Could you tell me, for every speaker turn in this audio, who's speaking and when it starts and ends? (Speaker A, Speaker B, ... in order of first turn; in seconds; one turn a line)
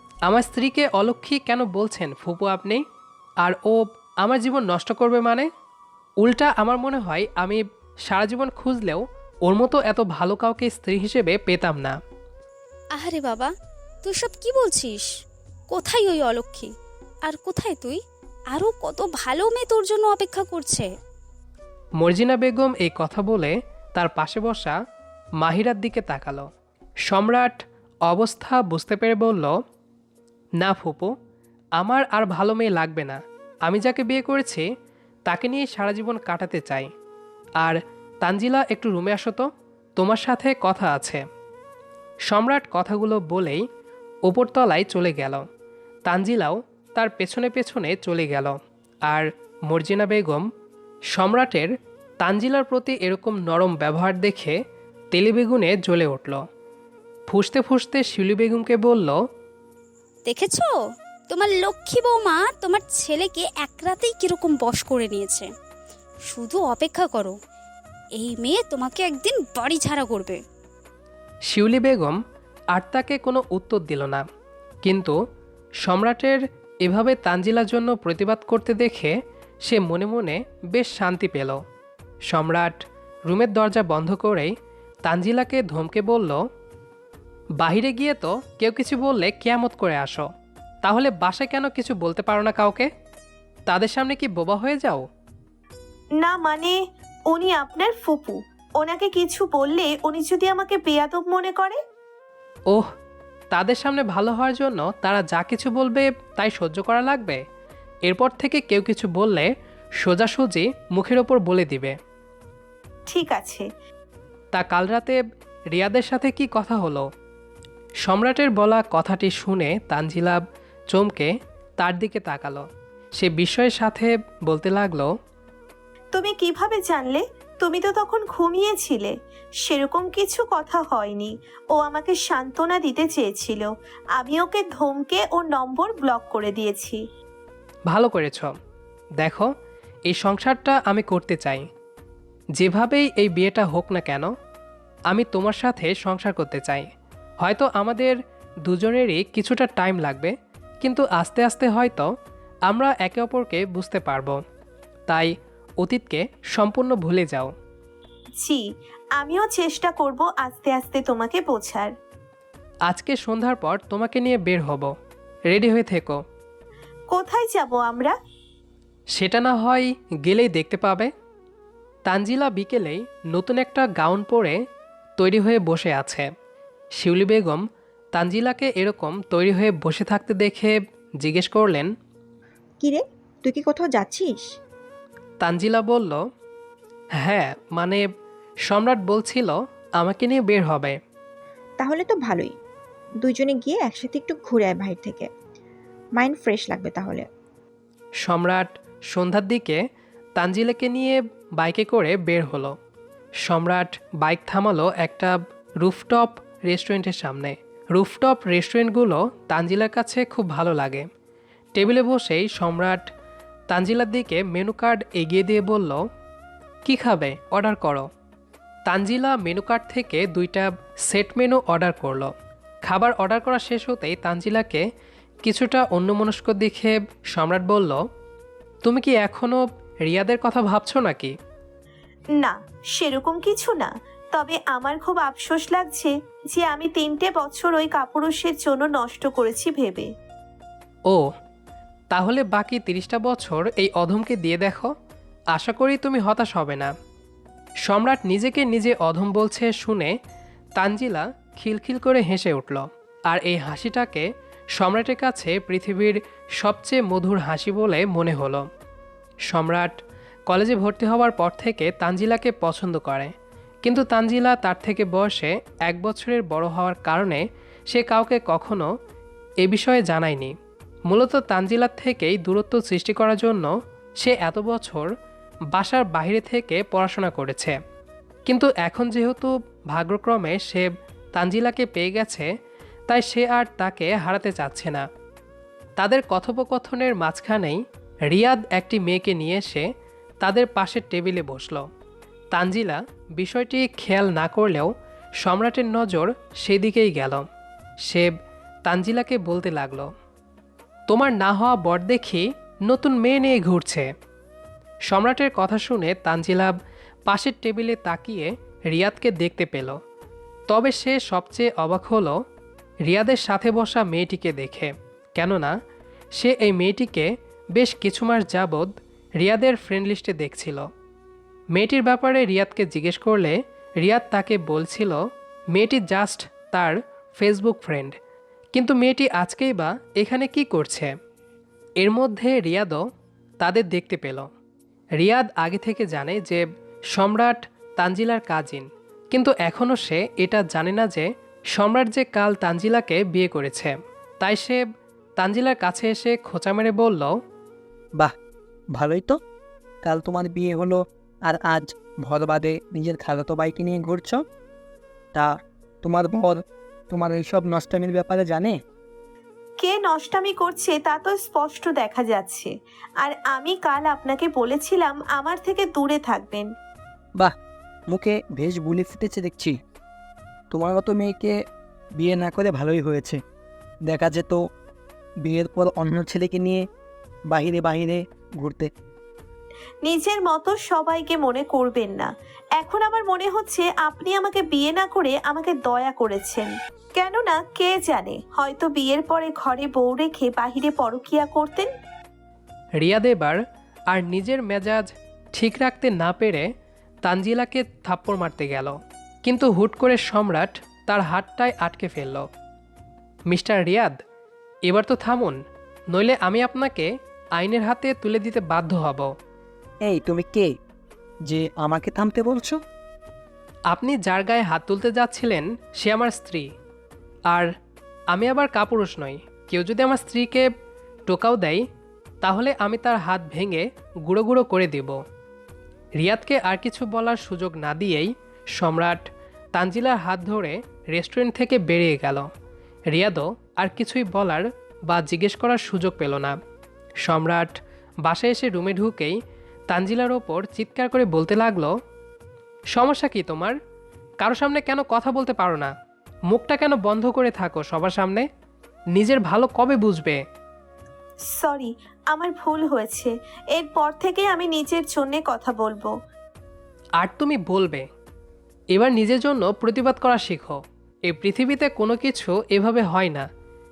Speaker A: 0.3-2.8
Speaker A: 3.4-5.5
Speaker A: 6.2-12.0
Speaker B: 13.0-13.5
Speaker B: 14.0-15.1
Speaker B: 15.7-16.7
Speaker B: 17.2-18.0
Speaker B: 18.5-20.9
Speaker A: 22.0-24.8
Speaker A: 25.4-26.5
Speaker A: 27.1-29.5
Speaker A: 30.6-31.1
Speaker A: 31.8-34.7
Speaker A: 35.3-36.9
Speaker A: 37.6-41.2
Speaker A: 42.3-43.6
Speaker A: 44.3-45.5
Speaker A: 46.1-50.5
Speaker A: 51.1-51.7
Speaker A: 52.2-54.6
Speaker A: 55.1-56.4
Speaker A: 57.3-59.2
Speaker B: 60.3-60.7
Speaker B: 61.3-65.5
Speaker B: 66.3-67.3
Speaker B: 68.2-70.4
Speaker A: 71.5-72.2
Speaker A: 72.7-74.2
Speaker A: 74.8-75.2
Speaker A: 75.8-79.1
Speaker A: 79.7-81.6
Speaker A: 82.3-84.5
Speaker A: 85.1-86.4
Speaker A: 87.6-90.3
Speaker A: 90.8-92.9
Speaker A: 93.7-95.1
Speaker C: 96.2-96.8
Speaker C: 97.3-101.8
Speaker A: 103.5-107.4
Speaker A: 108.1-109.5
Speaker A: 110.0-112.0
Speaker C: 113.1-113.7
Speaker A: 114.5-117.1
Speaker A: 118.0-125.1
Speaker C: 126.1-137.0
Speaker A: 137.9-138.5
Speaker A: 139.2-139.5
Speaker A: 140.1-141.7
Speaker A: 142.6-144.3
Speaker A: 145.1-146.9
Speaker A: 147.4-152.1
Speaker A: 152.7-154.4
Speaker A: 155.1-157.5
Speaker C: 159.2-161.9
Speaker A: 162.9-164.9
Speaker A: 165.5-166.2
Speaker C: 167.1-168.1
Speaker A: 169.2-171.1
Speaker A: 172.1-174.6
Speaker A: 175.2-176.3
Speaker A: 177.0-181.9
Speaker D: 182.8-184.6
Speaker A: 185.4-186.2
Speaker A: 187.2-188.1
Speaker A: 188.7-191.0
Speaker D: 191.8-192.6
Speaker D: 193.2-195.3
Speaker D: 196.2-197.3
Speaker A: 198.2-199.8
Speaker A: 200.4-202.8
Speaker A: 203.4-211.1
Speaker A: 211.8-213.0
Speaker A: 213.7-216.0
Speaker A: 216.8-218.1
Speaker A: 218.9-222.3
Speaker A: 222.8-224.8
Speaker A: 225.4-228.0
Speaker A: 228.8-231.3
Speaker C: 232.4-240.1
Speaker A: 242.1-244.9
Speaker A: 245.5-246.9
Speaker A: 247.9-250.1
Speaker A: 250.8-258.7
Speaker A: 259.5-263.3
Speaker A: 263.8-268.9
Speaker A: 269.6-270.5
Speaker A: 271.1-275.1
Speaker A: 275.7-277.8
Speaker A: 278.5-282.5
Speaker A: 283.1-285.1
Speaker A: 286.0-289.9
Speaker A: 290.4-291.9
Speaker A: 292.5-297.5
Speaker A: 298.1-298.3
Speaker A: 298.9-300.1
Speaker A: 301.1-304.1
Speaker A: 305.1-306.8
Speaker A: 307.3-310.0
Speaker A: 310.7-312.4
Speaker A: 313.1-315.7
Speaker A: 316.4-320.9
Speaker A: 321.8-325.2
Speaker A: 325.7-328.2
Speaker A: 328.7-331.1
Speaker A: 332.0-333.0
Speaker A: 333.6-334.5
Speaker A: 335.2-344.9
Speaker A: 345.4-347.3
Speaker E: 349.0-349.4
Speaker E: 350.0-354.5
Speaker E: 355.3-358.8
Speaker C: 359.8-366.7
Speaker E: 368.1-369.8
Speaker E: 370.7-371.6
Speaker E: 372.2-373.4
Speaker E: 374.1-374.6
Speaker E: 375.4-376.9
Speaker E: 377.5-378.9
Speaker C: 380.0-391.9
Speaker A: 393.0-393.6
Speaker A: 394.1-396.7
Speaker A: 397.2-402.5
Speaker A: 403.5-404.2
Speaker A: 404.9-405.6
Speaker A: 406.1-409.3
Speaker E: 410.0-410.8
Speaker E: 411.5-412.8
Speaker A: 413.9-416.7
Speaker A: 418.3-420.7
Speaker A: 421.3-421.8
Speaker A: 422.4-425.2
Speaker A: 426.2-429.2
Speaker A: 429.8-432.5
Speaker A: 433.1-436.6
Speaker A: 437.2-437.7
Speaker A: 438.3-439.4
Speaker A: 439.9-441.9
Speaker A: 442.9-443.8
Speaker A: 444.4-445.9
Speaker A: 446.5-448.5
Speaker A: 449.1-450.4
Speaker C: 451.5-456.1
Speaker A: 457.2-458.1
Speaker A: 458.9-463.5